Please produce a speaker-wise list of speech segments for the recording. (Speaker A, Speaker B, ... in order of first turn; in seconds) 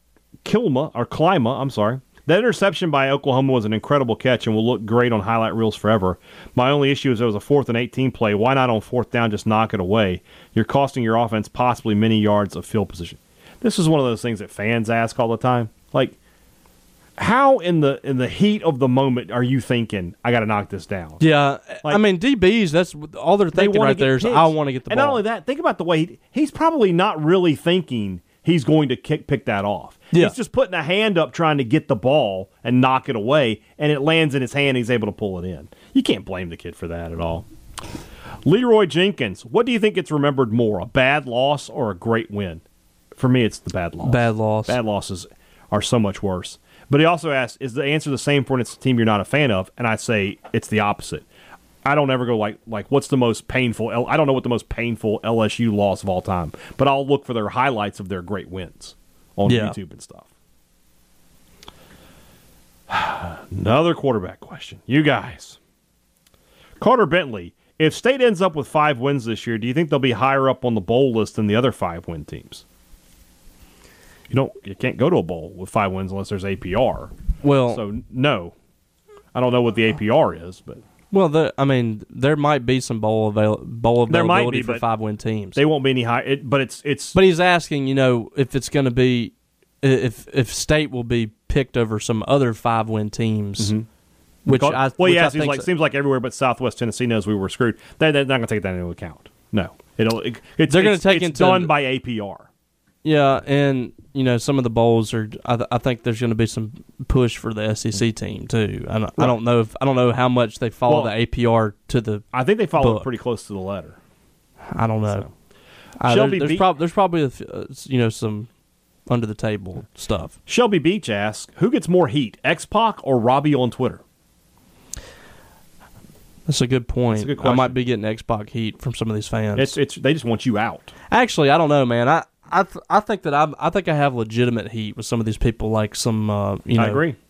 Speaker A: 0.4-16.1, 17.2-21.2, 23.5-37.5, 38.4-42.6, 43.1-51.2, 51.8-60.3, 62.9-65.6, 66.8-72.6, 74.3-77.1, 77.7-78.5, 79.3-80.8, 84.1-84.8, 85.5-87.2, 93.6-93.8, 94.5-102.5, 110.9-111.1, 112.3-114.0, 116.0-116.7, 120.5-124.0, 127.1-127.8, 129.6-130.9, 136.8-137.2
Speaker B: 21.2-25.2, 44.0-44.8, 59.5-59.8, 77.4-77.8, 81.1-85.6, 87.1-93.7, 94.4-95.7, 100.7-101.7, 103.0-112.2, 112.8-113.1, 114.7-115.3, 116.0-118.5, 119.1-120.3, 126.5-129.8, 131.1-137.0